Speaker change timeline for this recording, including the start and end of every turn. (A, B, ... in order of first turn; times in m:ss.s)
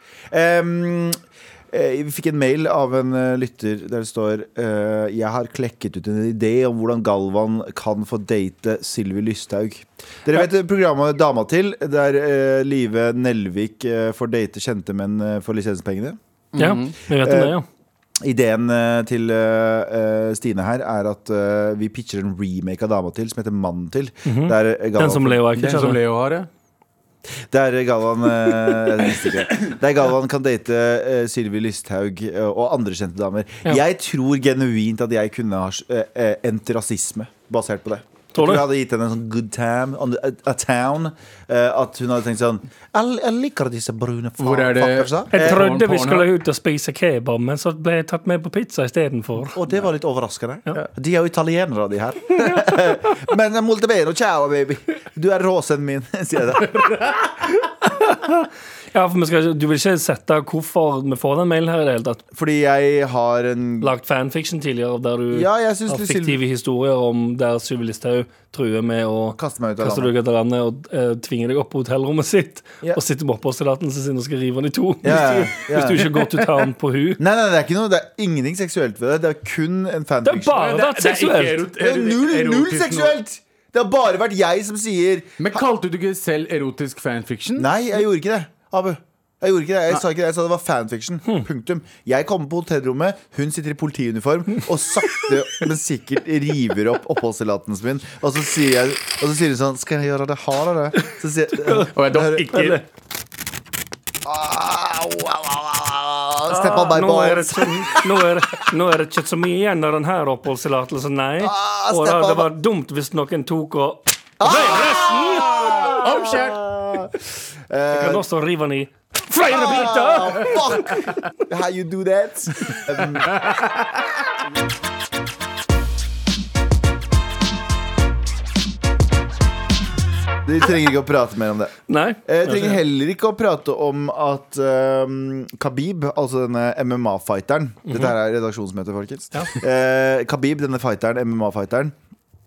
0:00.3-0:01.2 A
0:01.7-0:16.2 A
0:16.5-0:16.9 B
0:16.6-0:17.6 C
0:17.2-0:17.5 A
0:18.2-0:25.4 A
0:24.2-0:26.0 C
0:25.6-0:26.5 B
0:27.5-0:45.6 A
0:38.4-0:38.6 C
0:44.4-0:46.3 B
0:45.3-0:49.6 C
0:49.5-0:57.0 A
0:57.8-1:02.2 C
1:02.3-1:03.9 A
1:03.8-1:17.2 C
1:05.3-1:06.4 A
1:09.4-1:10.1 A
1:15.0-1:16.1 A
1:16.0-1:16.6 B
1:17.2-1:20.7 A
1:20.2-1:21.6 C
1:20.6-1:23.2 B
1:21.8-1:25.6 A
1:25.4-1:27.7 B
1:27.6-1:42.8 A
1:41.6-1:41.9 C
1:41.9-1:42.8 B
1:42.5-1:42.8 C
1:44.2-1:48.2 A
1:46.5-1:55.7 C
1:51.4-1:52.5 A
1:54.4-1:57.2 A
1:55.6-1:56.6 B
1:57.7-1:58.2 A
1:57.9-2:01.1 C
1:59.4-2:03.3 A
2:03.0-2:04.0 B
2:10.4-2:22.0 A
2:11.9-2:12.8 C